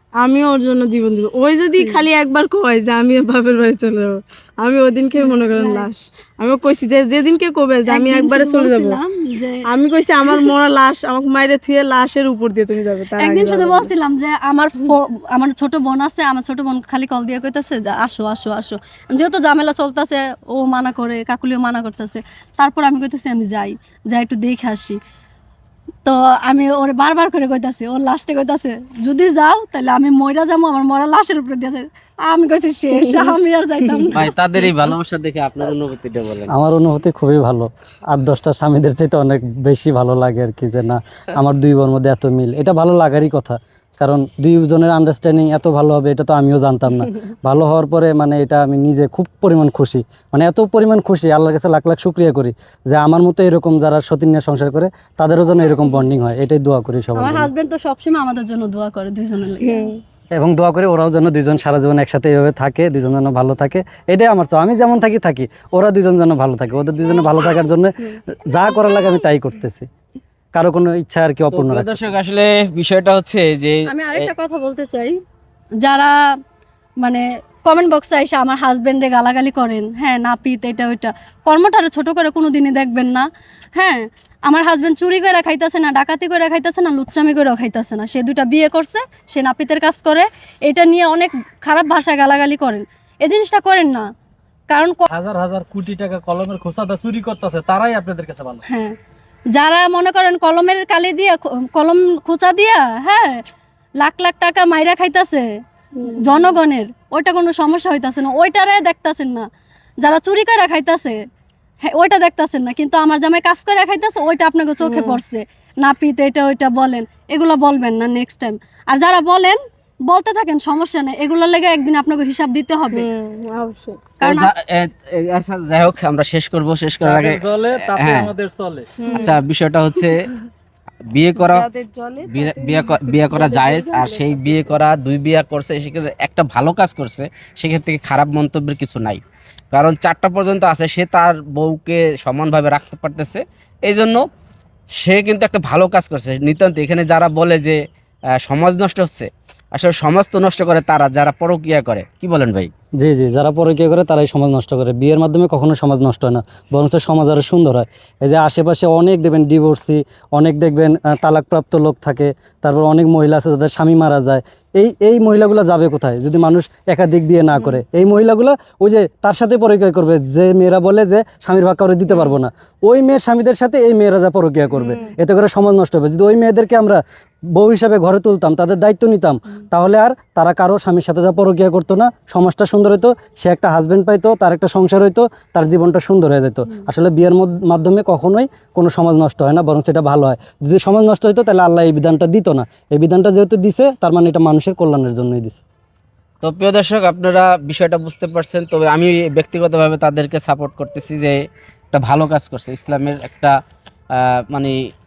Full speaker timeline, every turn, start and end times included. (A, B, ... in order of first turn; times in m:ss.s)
0:00.2-0:09.0 A
0:01.8-0:02.0 B
0:05.2-0:05.9 B
0:07.9-0:09.6 B
0:09.7-0:13.9 A
0:13.2-0:25.0 B
0:26.0-0:34.3 B
0:32.9-0:34.0 A
0:34.1-0:36.5 C
0:36.5-0:57.5 D
0:57.2-0:59.9 B
0:59.6-1:00.0 A
1:00.4-1:09.8 D
1:10.5-1:12.0 D
1:11.5-1:14.3 C
1:13.9-1:15.2 B
1:15.8-1:16.1 B
1:17.0-1:34.1 B
1:34.7-1:35.0 B
1:35.1-1:38.6 E
1:38.7-1:39.0 B
1:39.5-1:43.4 B
1:44.0-1:45.5 B
1:46.0-1:46.5 A
1:46.1-1:49.5 B
1:50.0-1:51.2 B
1:51.8-2:03.1 B
1:54.8-1:55.2 A
2:02.9-2:04.1 A
2:04.2-2:08.3 C
2:04.2-2:04.5 B
2:07.0-2:08.9 E
2:09.0-2:09.4 A
2:09.1-2:10.3 C
2:11.1-2:11.7 C
2:11.4-2:14.8 A
2:12.2-2:24.2 C
2:25.0-2:27.8 C
2:28.4-2:32.7 C
2:33.0-2:57.0 D
2:52.1-2:52.4 A
2:54.7-2:55.1 A
2:57.5-3:15.6 D
3:16.4-3:21.4 C
3:21.9-3:23.6 C
3:24.2-3:24.8 C